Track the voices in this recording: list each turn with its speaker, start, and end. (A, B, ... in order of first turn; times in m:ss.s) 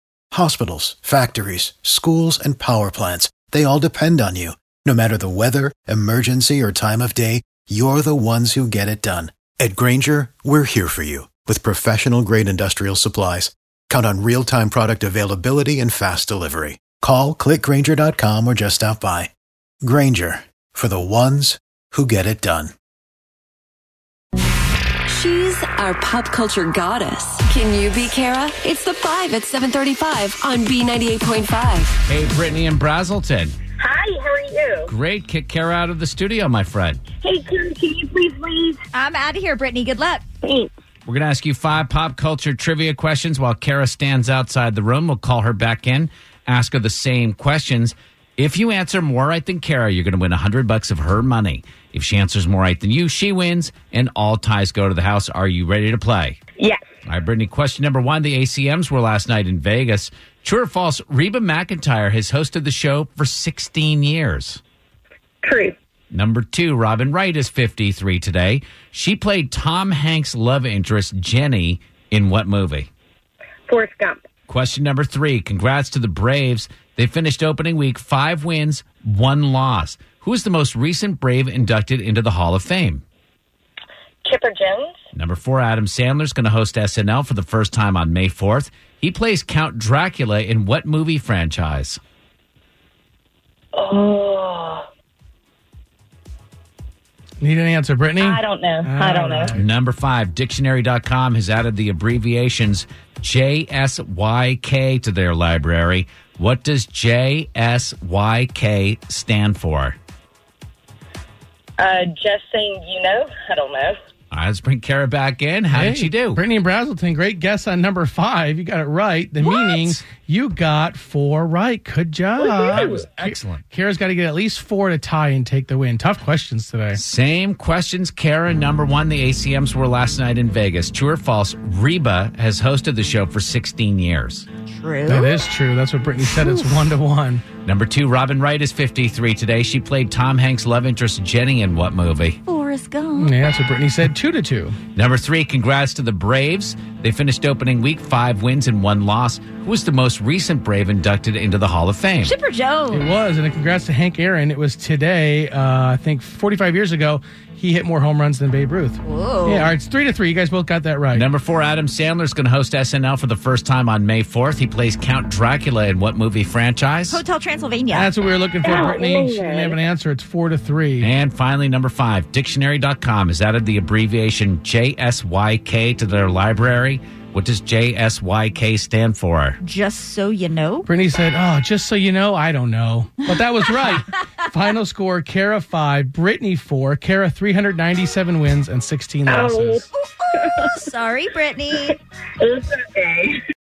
0:00.3-0:19.3 A
0:19.8-0:22.7 A
0:25.1-0:32.0 B
0:32.1-0:33.6 C
0:33.8-0:34.9 D
0:34.9-0:37.0 C
0:37.2-0:38.8 D
0:38.9-0:40.2 E
0:40.4-0:40.7 D
0:41.0-0:56.4 C
0:57.1-1:04.6 C
1:05.4-1:05.8 D
1:06.1-1:12.9 C
1:13.7-1:14.2 D
1:14.5-1:23.0 C
1:24.2-1:24.9 D
1:25.1-1:32.0 C
1:33.8-1:34.8 D
1:37.4-1:39.6 F
1:38.2-1:39.5 D
1:39.5-1:50.0 C
1:51.8-1:54.0 D
1:54.3-1:56.4 C
1:55.7-2:07.0 F
1:59.4-2:00.0 C
2:02.4-2:03.1 D
2:03.2-2:03.6 C
2:06.9-2:14.5 C
2:14.7-2:15.4 E
2:15.1-2:17.4 F
2:16.2-2:16.8 E
2:17.6-2:22.4 C
2:22.5-2:23.3 E
2:23.2-2:24.8 F
2:25.0-2:32.4 C
2:32.2-2:33.1 E
2:32.9-2:41.2 F
2:39.0-2:39.7 E
2:41.1-2:47.2 C
2:47.1-2:48.1 E
2:47.9-2:51.0 F
2:48.6-2:49.8 D
2:51.0-2:59.6 C
2:59.6-3:00.9 E
3:00.9-3:09.9 F
3:09.3-3:10.7 D
3:10.6-3:12.0 E
3:12.4-3:13.4 D